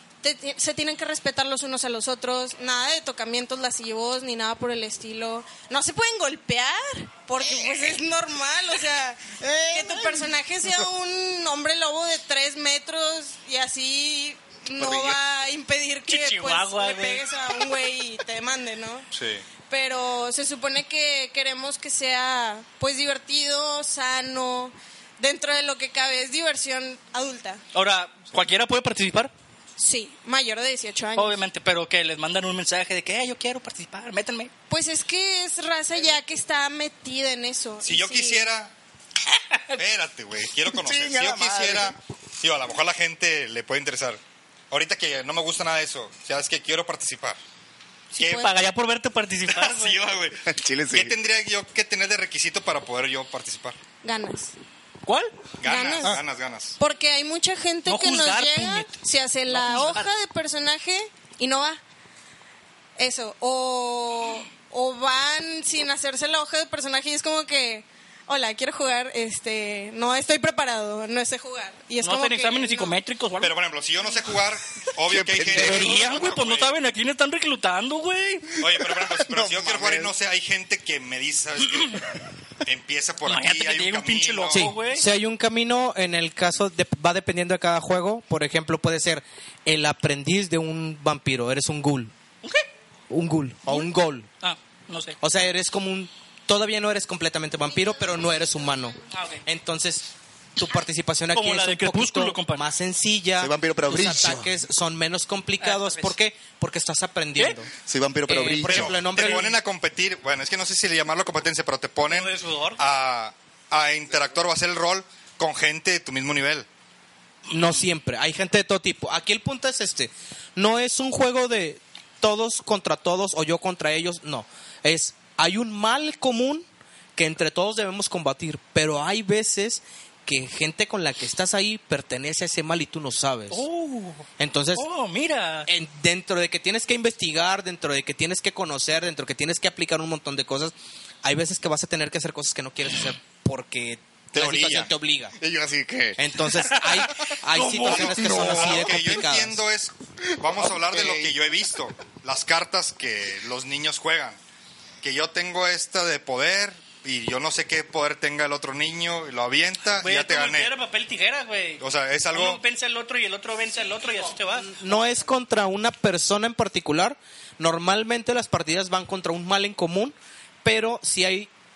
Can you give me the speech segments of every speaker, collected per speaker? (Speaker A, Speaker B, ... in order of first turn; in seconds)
Speaker A: 0.2-19.1, 19.6-27.6, 29.8-31.4, 34.7-38.5, 48.1-48.5, 54.0-54.5, 55.6-56.2, 56.8-61.8, 63.0-72.9, 97.7-99.1
Speaker B: 9.4-9.9, 75.5-76.0, 84.5-92.1, 93.1-94.3, 95.2-107.7, 108.3-109.5, 117.5-133.6, 134.4-134.8, 135.7-145.3, 146.2-149.6, 164.5-171.5
Speaker C: 14.8-15.2, 40.7-42.0, 50.5-51.1, 75.1-75.9, 78.7-80.1, 103.4-104.6, 107.8-109.0, 145.4-146.5, 147.9-148.7, 150.4-151.3
Speaker D: 16.1-17.6, 27.7-29.3, 31.1-34.5, 39.5-39.8, 48.2-50.0, 55.0-55.4, 57.9-59.0, 59.5-60.1, 72.0-73.5, 75.5-78.5, 83.2-85.0, 93.7-95.2, 99.1-99.4, 101.3-102.6, 105.6-106.2, 109.2-109.5, 112.0-112.8, 133.5-135.7, 146.8-148.7, 160.0-164.7
Speaker E: 19.1-19.4, 37.8-38.7, 39.7-44.2, 44.7-47.4, 48.2-48.5, 49.5-53.8, 55.6-56.8, 73.4-76.7, 78.6-82.0, 82.6-84.7, 108.6-116.7, 144.3-144.9, 147.9-154.4, 155.0-160.7, 161.8-162.6